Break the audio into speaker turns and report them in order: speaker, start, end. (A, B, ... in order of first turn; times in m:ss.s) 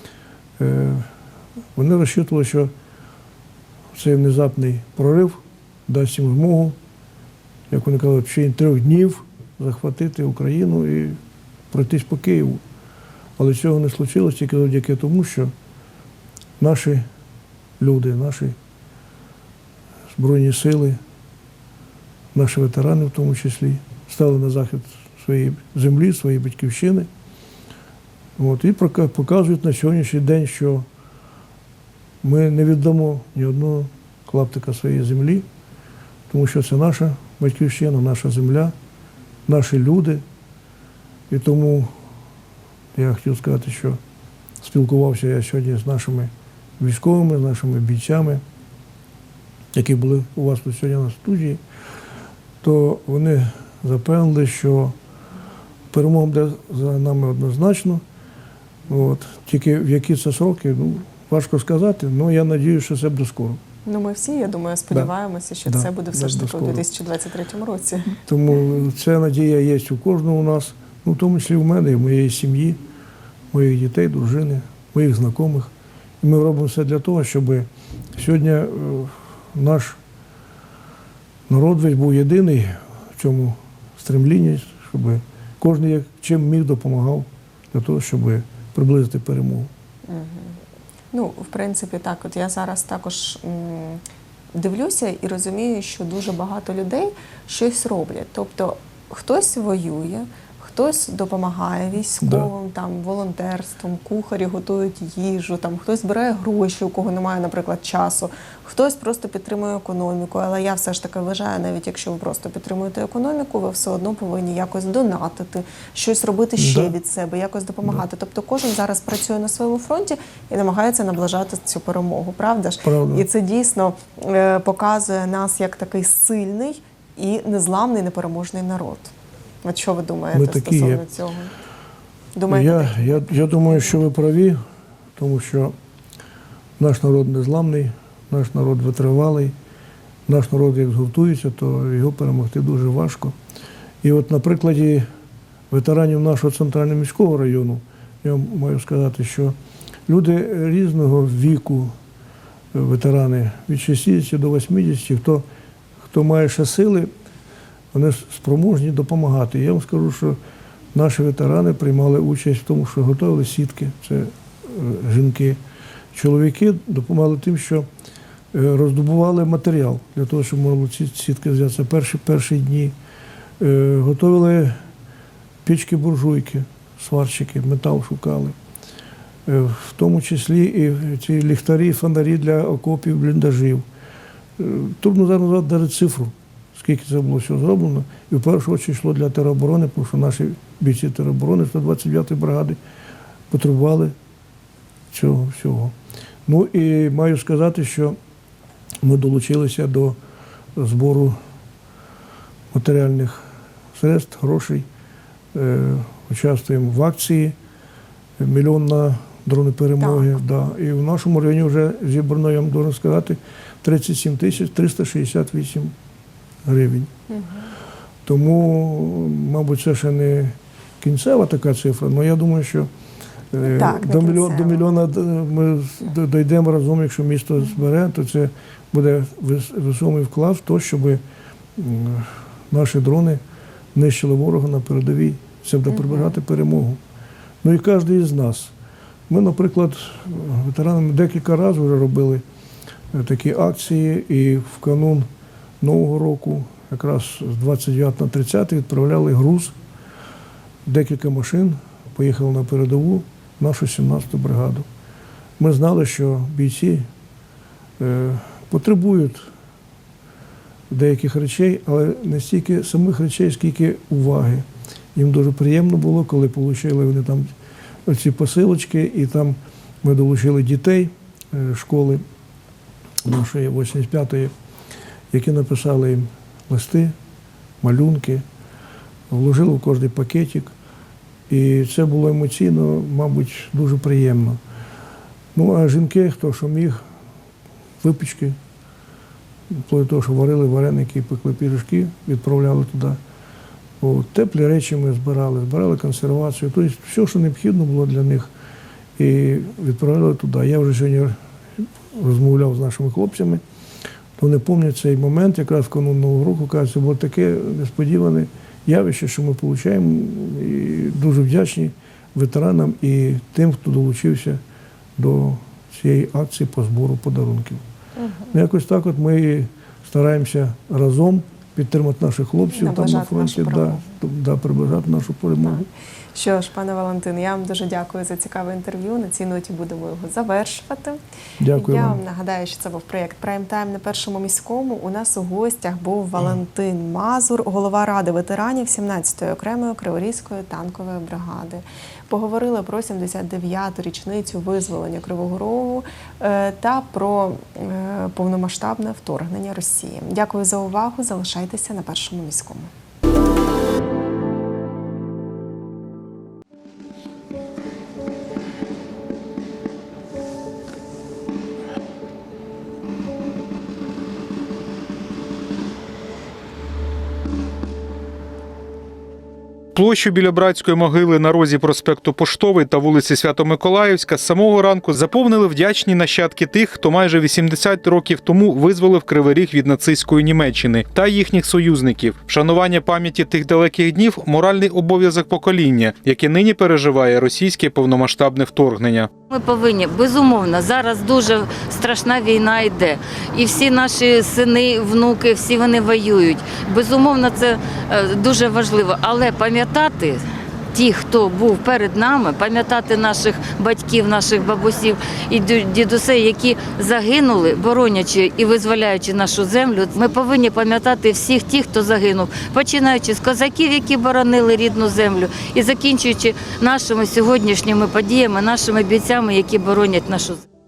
0:00.6-0:01.1 A
0:01.7-0:02.7 A
0:03.9-0:06.8 A
0:07.7-0:11.2 A
0:11.7-0:12.6 A
0:13.4-0:15.5 A
0:16.6-0:17.0 A
0:17.8-0:18.5 A
0:20.1-0:21.0 A
0:22.3-0:27.1 A
0:28.4-0:30.8 A
0:32.2-0:35.4 A
0:36.3-0:38.7 A
0:39.5-0:40.2 A
0:41.3-0:41.9 A
0:42.9-0:44.0 A
0:44.6-0:48.4 A
0:49.7-0:51.6 A
0:52.6-0:54.9 A
0:55.9-0:58.0 A
0:58.9-1:03.6 A
1:03.8-1:08.2 B
1:05.6-1:06.8 A
1:08.2-1:12.8 A
1:13.5-1:15.7 A
1:16.2-1:20.0 A
1:21.5-1:29.7 A
1:30.1-1:30.6 B
1:31.1-1:34.0 B
1:34.5-2:11.5 B
1:42.2-1:42.5 A
1:56.6-1:56.9 A
2:02.8-2:03.2 A
2:10.3-2:11.0 A
2:12.3-2:14.0 B
2:12.5-2:14.6 A
2:15.2-2:15.7 A
2:16.8-2:19.5 A
2:20.3-2:23.3 A
2:24.0-2:25.0 A
2:25.7-2:29.5 A
2:30.1-2:31.9 A
2:32.7-2:35.4 A
2:36.0-2:37.1 A
2:37.9-2:40.4 A
2:40.9-2:45.6 A
2:46.1-2:47.8 A
2:48.5-2:52.9 A
2:53.6-2:54.8 A
2:55.6-2:58.5 A
2:59.4-3:03.8 A
3:04.6-3:12.8 A
3:13.5-3:14.1 A
3:15.1-3:15.9 A
3:16.5-3:18.1 A
3:19.0-3:20.2 A
3:20.8-3:21.4 A
3:22.7-3:23.4 A
3:24.0-3:24.8 A
3:25.5-3:27.5 A
3:28.4-3:35.9 A
3:30.0-3:30.3 B
3:36.6-3:37.1 A
3:37.3-3:37.6 B
3:38.2-3:42.9 A
3:43.5-3:51.2 A
3:43.6-3:44.8 B
3:51.8-3:53.4 A
3:53.9-3:57.0 A
3:57.6-3:58.7 A
3:59.3-4:02.4 A
4:03.1-4:05.3 A
4:05.8-4:09.7 A
4:10.8-4:14.8 A
4:15.6-4:17.1 A
4:18.0-4:19.5 A
4:20.9-4:27.5 A
4:28.1-4:32.2 A
4:33.2-4:34.5 A
4:35.3-4:37.1 A
4:37.8-4:38.4 A
4:39.3-4:40.7 A
4:41.5-4:44.6 A
4:45.5-4:47.0 A
4:48.0-4:48.6 A
4:49.7-4:53.2 A
4:54.0-4:58.5 A
4:59.2-5:03.6 A
5:04.4-5:14.6 A
5:15.2-5:17.8 A
5:18.2-5:18.5 B
5:18.5-5:25.8 A
5:22.7-5:24.1 B
5:25.6-5:31.2 B
5:31.6-5:32.2 A
5:31.7-5:52.9 B
6:09.9-6:29.3 C
6:29.5-6:40.4 D
6:40.9-7:00.6 D